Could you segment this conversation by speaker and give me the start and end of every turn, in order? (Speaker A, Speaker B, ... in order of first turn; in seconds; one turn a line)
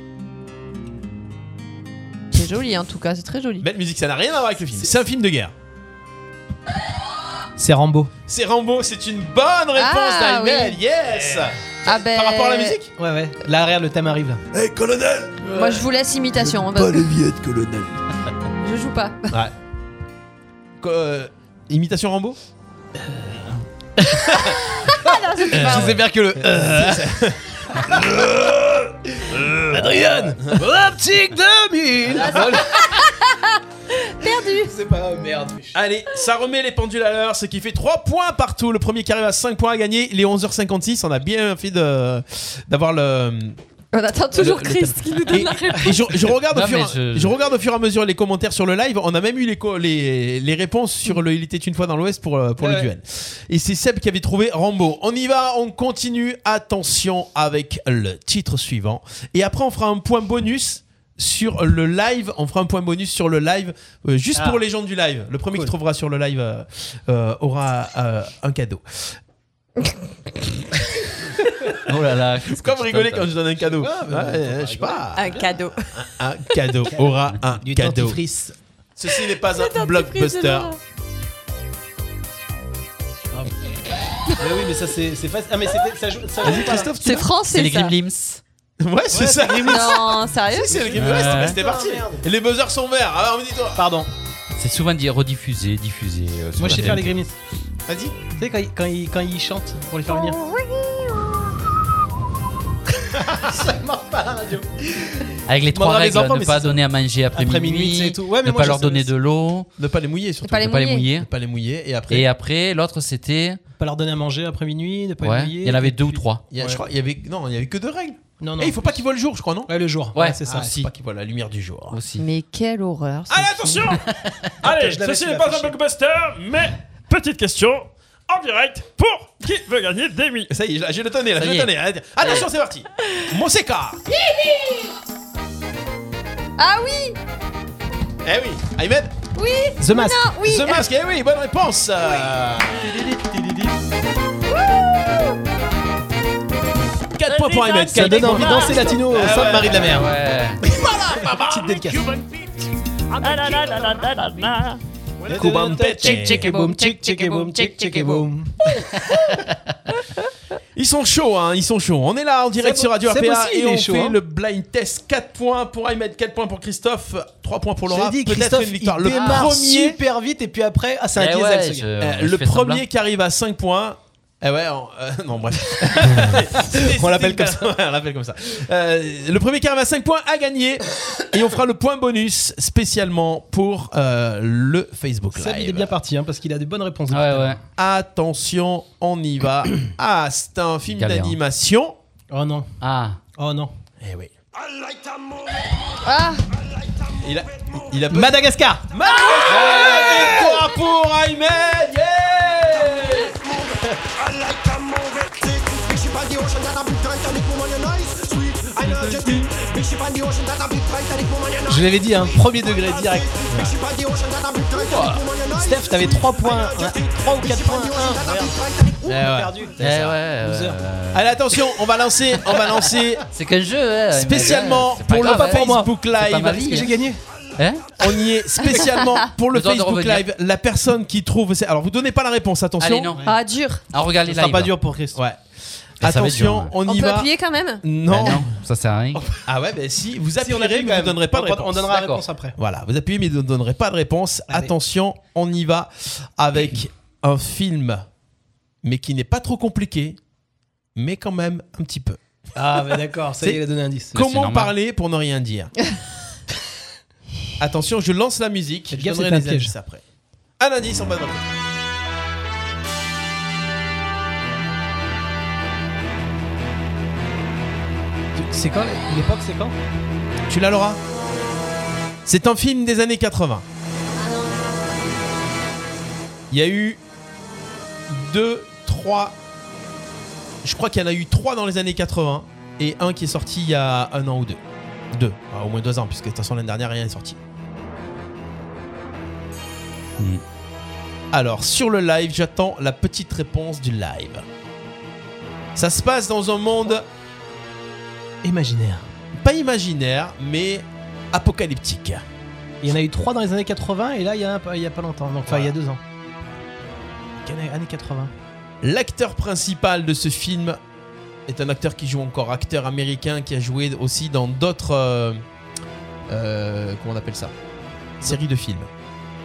Speaker A: 2.3-3.7
Speaker B: 3.6-5.5
Speaker C: 7.6-8.1
Speaker B: 8.3-12.9
Speaker A: 9.8-10.8
Speaker A: 11.8-12.8
Speaker C: 13.0-14.4
Speaker B: 14.5-15.9
Speaker A: 15.4-17.1
Speaker B: 16.4-18.0
Speaker A: 18.6-19.3
Speaker B: 20.8-22.4
Speaker A: 24.8-26.0
Speaker C: 25.5-27.1
Speaker B: 25.5-28.6
Speaker C: 27.8-28.5
Speaker C: 29.2-33.0
Speaker B: 29.4-30.6
Speaker B: 32.1-32.5
Speaker A: 32.2-33.4
Speaker A: 34.0-34.7
Speaker C: 34.6-35.8
Speaker B: 35.7-43.6
Speaker A: 43.9-46.1
Speaker B: 44.3-69.2
Speaker D: 46.5-47.4
Speaker C: 52.6-52.9
Speaker C: 64.3-64.6
Speaker D: 71.8-73.3
Speaker B: 72.5-78.2
Speaker C: 73.7-75.5
Speaker A: 75.2-75.9
Speaker C: 76.9-78.6
Speaker B: 79.0-80.7
Speaker A: 79.2-80.8
Speaker C: 84.4-86.9
Speaker B: 86.4-87.3
Speaker A: 87.0-87.9
Speaker D: 87.5-88.4
Speaker B: 88.8-93.9
Speaker C: 89.1-92.2
Speaker A: 89.7-91.0
Speaker D: 91.0-91.6
Speaker C: 93.8-94.1
Speaker D: 94.6-97.2
Speaker C: 96.6-97.3
Speaker B: 97.9-98.2
Speaker C: 98.3-100.4
Speaker A: 100.4-100.8
Speaker C: 103.1-106.5
Speaker D: 105.5-109.7
Speaker B: 105.8-106.8
Speaker C: 107.3-109.1
Speaker B: 109.8-112.3
Speaker A: 110.4-111.0
Speaker D: 110.6-111.3
Speaker D: 112.1-113.6
Speaker C: 113.8-116.8
Speaker D: 115.2-116.4
Speaker B: 116.5-119.7
Speaker C: 118.4-119.0
Speaker C: 119.7-120.8
Speaker D: 120.1-120.8
Speaker B: 120.5-122.0
Speaker D: 121.9-122.2
Speaker A: 122.2-124.0
Speaker B: 123.3-124.0
Speaker E: 123.6-124.0
Speaker E: 124.6-130.5
Speaker C: 124.7-125.8
Speaker B: 130.5-134.0
Speaker D: 131.4-131.7
Speaker A: 136.6-137.2
Speaker B: 138.2-139.2
Speaker A: 139.3-140.9
Speaker C: 139.8-140.7
Speaker B: 140.5-143.2
Speaker A: 144.7-145.1
Speaker B: 147.2-150.1
Speaker E: 147.3-148.5
Speaker C: 147.9-150.1
Speaker D: 149.8-150.6
Speaker B: 150.6-152.2
Speaker C: 150.7-152.1
Speaker E: 153.2-154.8
Speaker B: 155.2-156.6
Speaker C: 155.2-158.6
Speaker A: 156.5-158.2
Speaker D: 159.0-159.5
Speaker B: 160.8-170.0
Speaker C: 162.6-164.2
Speaker C: 167.9-171.9
Speaker D: 171.2-172.8
Speaker B: 172.0-185.9
Speaker C: 176.1-177.7
Speaker C: 185.3-187.6
Speaker D: 187.1-187.6
Speaker B: 187.8-192.0
Speaker D: 190.9-191.4
Speaker C: 192.3-192.7
Speaker D: 192.8-193.2
Speaker C: 193.4-193.7
Speaker B: 194.0-194.3
Speaker A: 196.0-196.4
Speaker B: 197.2-203.9
Speaker C: 198.1-198.9
Speaker A: 199.2-199.8
Speaker C: 199.4-200.7
Speaker B: 208.7-209.6
Speaker C: 211.7-213.8
Speaker B: 214.8-215.3
Speaker C: 215.5-219.7
Speaker B: 219.1-220.2
Speaker D: 219.8-221.3
Speaker C: 220.4-220.8
Speaker B: 221.1-223.3
Speaker D: 223.3-226.9
Speaker B: 224.1-226.8
Speaker C: 225.1-225.9
Speaker C: 226.6-227.2
Speaker D: 227.6-227.9
Speaker B: 228.0-233.1
Speaker A: 228.7-229.0
Speaker D: 229.5-230.2
Speaker D: 232.8-233.2
Speaker A: 233.2-233.8
Speaker D: 233.9-234.8
Speaker C: 234.3-235.2
Speaker B: 235.1-235.4
Speaker B: 236.0-237.3
Speaker D: 236.0-236.7
Speaker A: 236.8-238.3
Speaker B: 237.8-238.4
Speaker D: 238.1-239.2
Speaker B: 239.2-242.0
Speaker C: 240.4-242.6
Speaker D: 241.9-242.2
Speaker B: 242.6-248.1
Speaker B: 248.8-250.2
Speaker B: 251.0-252.2
Speaker C: 252.6-254.1
Speaker B: 253.4-255.7
Speaker D: 254.1-254.7
Speaker B: 257.6-260.0
Speaker C: 258.9-259.7
Speaker B: 260.6-261.5
Speaker C: 268.4-269.7
Speaker B: 270.5-271.0
Speaker B: 272.2-273.6
Speaker B: 276.5-277.0
Speaker B: 278.1-279.4
Speaker B: 280.6-284.6
Speaker B: 285.1-287.4
Speaker B: 291.3-294.4
Speaker B: 295.8-297.1
Speaker C: 298.4-299.1
Speaker B: 299.4-302.2
Speaker C: 302.8-306.0
Speaker B: 305.5-305.8
Speaker C: 307.4-308.3
Speaker B: 308.8-310.8
Speaker B: 311.5-315.4
Speaker B: 316.3-317.5
Speaker B: 318.2-318.9